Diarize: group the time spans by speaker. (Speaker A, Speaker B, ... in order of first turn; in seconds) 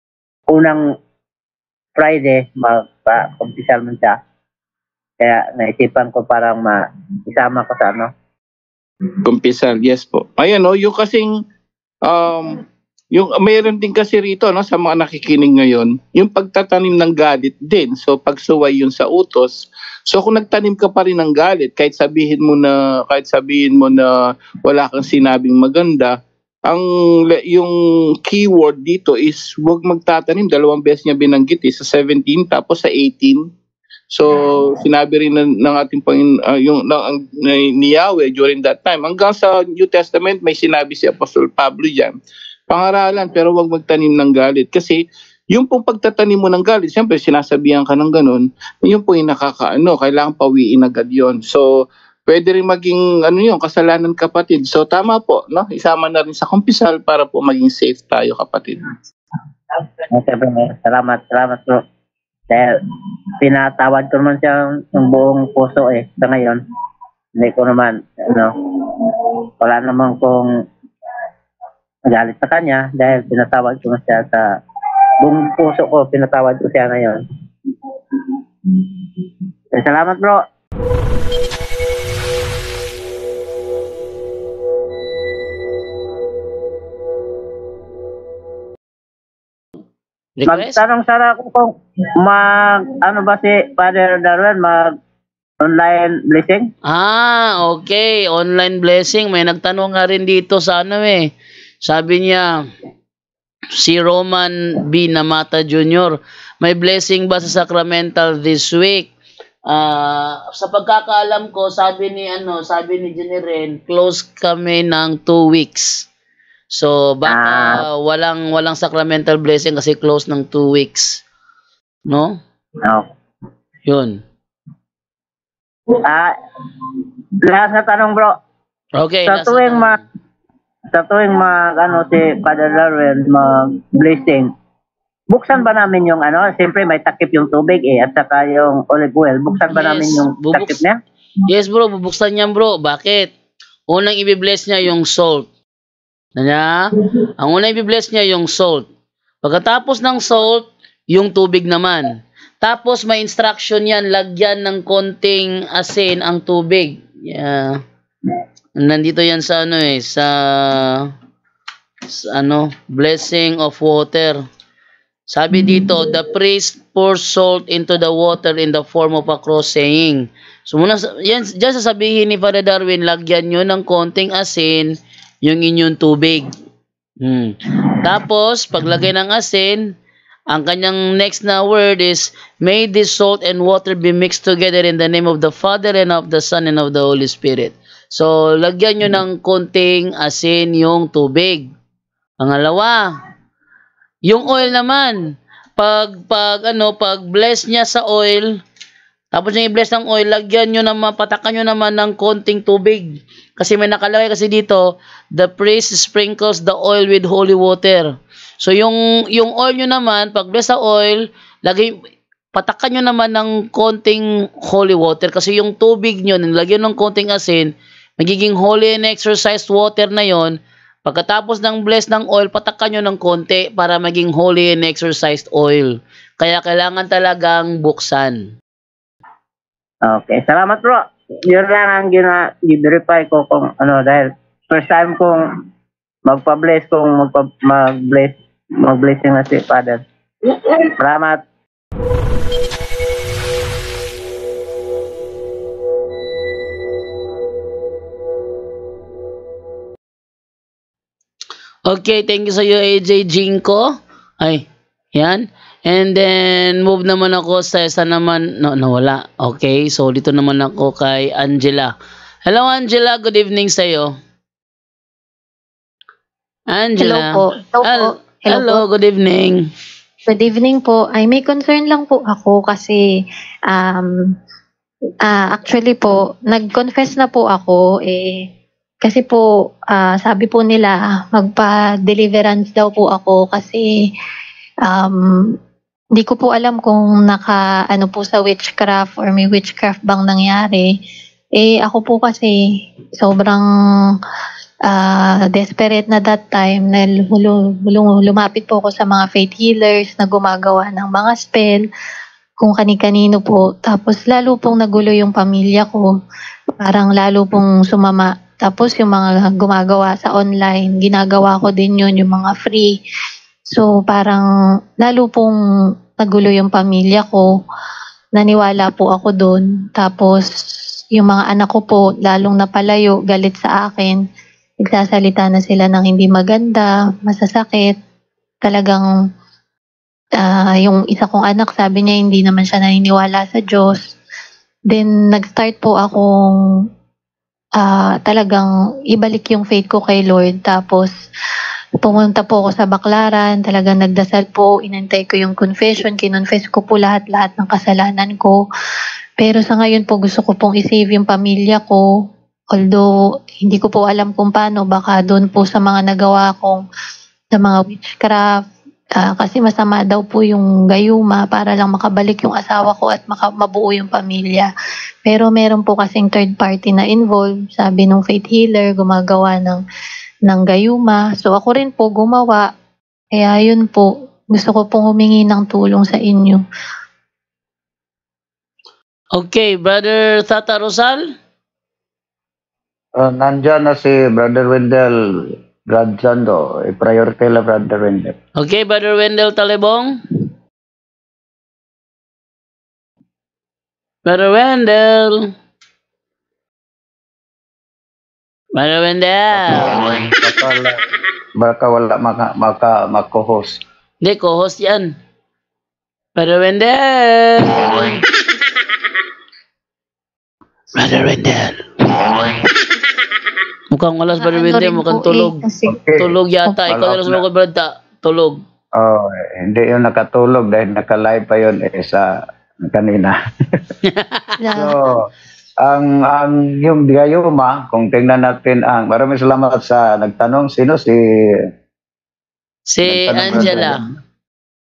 Speaker A: 0.5-0.8, 1.9-4.2, 5.2-6.8, 7.3-8.1, 60.1-61.8, 63.4-66.6, 67.4-70.5, 72.1-74.4, 75.2-77.2, 79.8-80.4, 90.5-91.7, 92.2-94.9, 95.6-96.7, 117.3-117.7, 126.1-126.3, 127.4-128.3, 129.3-130.0, 130.9-134.5, 135.3-141.0, 230.1-235.4, 236.2-240.0, 241.0-241.4
Speaker B: 9.2-11.3, 12.1-24.1, 24.6-26.1, 26.7-33.4, 34.1-42.1, 42.7-45.0, 45.5-58.9
Speaker C: 90.4-90.8, 96.8-101.3, 101.8-102.5, 103.8-109.1, 109.7-116.1, 116.7-121.2, 122.1-122.4, 123.8-124.2, 128.9-130.0, 139.7-140.8, 141.5-143.3, 143.9-145.5, 146.3-146.9, 147.4-148.9, 149.4-157.8, 158.8-161.1, 162.1-164.4, 165.3-174.9, 175.4-176.5, 177.2-179.9, 180.5-191.7, 192.4-193.1, 194.2-198.6, 199.3-208.1, 208.6-211.9, 212.5-228.5, 251.8-253.9, 254.4-261.9, 262.4-264.1, 266.7-269.6, 379.3-381.2, 388.6-390.2, 394.2-395.4, 398.7-400.0, 404.2-405.1, 406.4-408.2, 410.9-412.6, 413.9-415.6, 416.2-418.6, 424.1-424.4, 432.9-434.0
Speaker D: 267.0-268.8, 270.3-273.0, 273.7-274.1, 275.2-278.4, 279.0-283.9, 284.9-285.5, 286.1-290.9, 291.6-292.6, 293.2-293.6, 294.9-301.9, 302.6-306.0, 306.8-312.9, 313.7-314.4, 315.0-315.5, 316.2-317.4, 318.4-320.4, 321.1-324.2, 324.8-327.9, 328.6-329.0, 330.4-334.0, 334.9-336.5, 337.8-341.1, 342.0-348.6, 349.4-352.0, 352.7-353.1, 353.6-356.8, 357.5-358.4, 359.2-364.7, 365.2-369.8, 370.5-372.6, 373.3-376.6, 414.3-416.0, 424.6-425.0
Speaker E: 383.2-388.3, 399.5-401.0, 401.6-403.8, 415.9-416.3, 416.9-417.4, 418.9-422.3, 422.9-423.3, 424.7-425.3, 425.8-431.2, 433.0-434.1